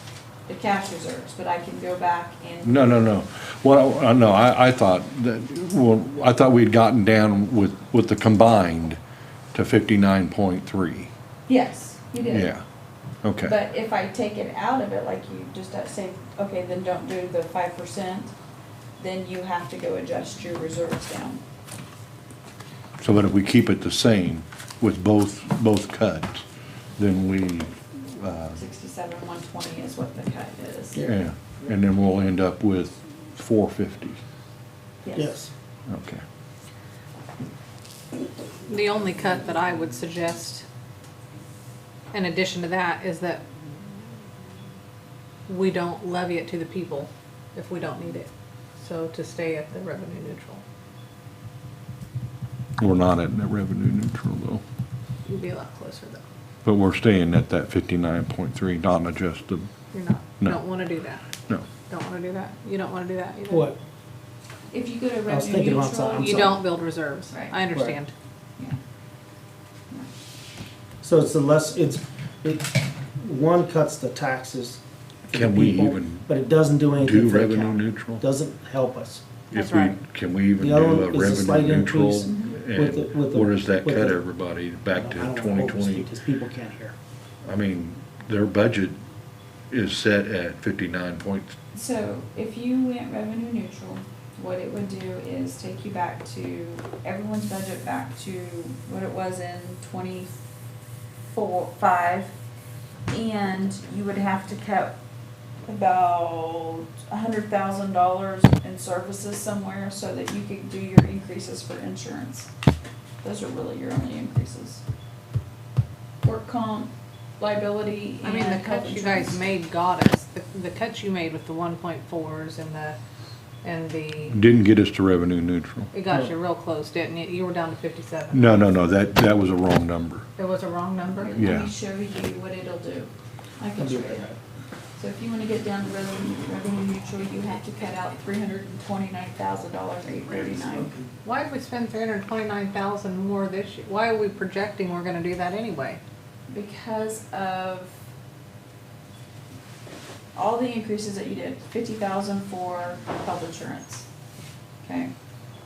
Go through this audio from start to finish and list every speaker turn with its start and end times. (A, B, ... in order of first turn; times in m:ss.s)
0:00.5-0:03.0 A
0:02.6-0:09.0 B
0:09.5-0:11.1 B
0:11.5-0:12.5 A
0:12.3-0:12.6 B
0:13.2-0:13.6 B
0:13.4-0:18.3 A
0:19.0-0:21.4 A
0:23.0-0:26.4 B
0:27.0-0:28.6 B
0:28.6-0:31.0 A
0:31.0-0:34.2 B
0:35.0-0:35.4 A
0:35.1-0:35.5 C
0:35.9-0:36.2 B
0:38.7-0:40.6 D
0:42.1-0:43.4 D
0:45.5-0:50.6 D
0:52.8-0:54.6 B
0:55.2-0:56.2 D
0:56.6-0:59.7 B
0:59.9-1:01.3 D
1:01.8-1:03.7 D
1:03.5-1:03.8 C
1:04.7-1:06.6 A
1:05.3-1:06.6 C
1:06.2-1:08.1 D
1:11.0-1:19.2 C
1:15.3-1:16.3 B
1:17.0-1:18.2 B
1:19.5-1:20.0 D
1:19.5-1:26.1 B
1:20.6-1:24.2 C
1:22.2-1:22.5 A
1:24.9-1:26.9 C
1:27.4-1:29.0 B
1:29.7-1:31.6 B
1:31.7-1:40.4 A
1:41.3-1:42.3 A
1:43.1-1:45.0 A
1:45.6-1:52.5 A
1:53.2-1:54.8 A
1:56.2-1:59.5 A
1:58.2-2:03.0 D
2:03.6-2:04.4 D
2:04.3-2:05.9 B
2:05.9-2:08.6 D
2:08.3-2:10.3 B
2:10.4-2:11.3 D
2:11.2-2:14.3 A
2:11.4-2:11.7 B
2:13.8-2:14.4 C
2:15.0-2:21.0 A
2:21.2-2:26.0 D
2:26.5-2:28.0 A
2:30.3-2:34.0 A
2:34.8-2:35.1 A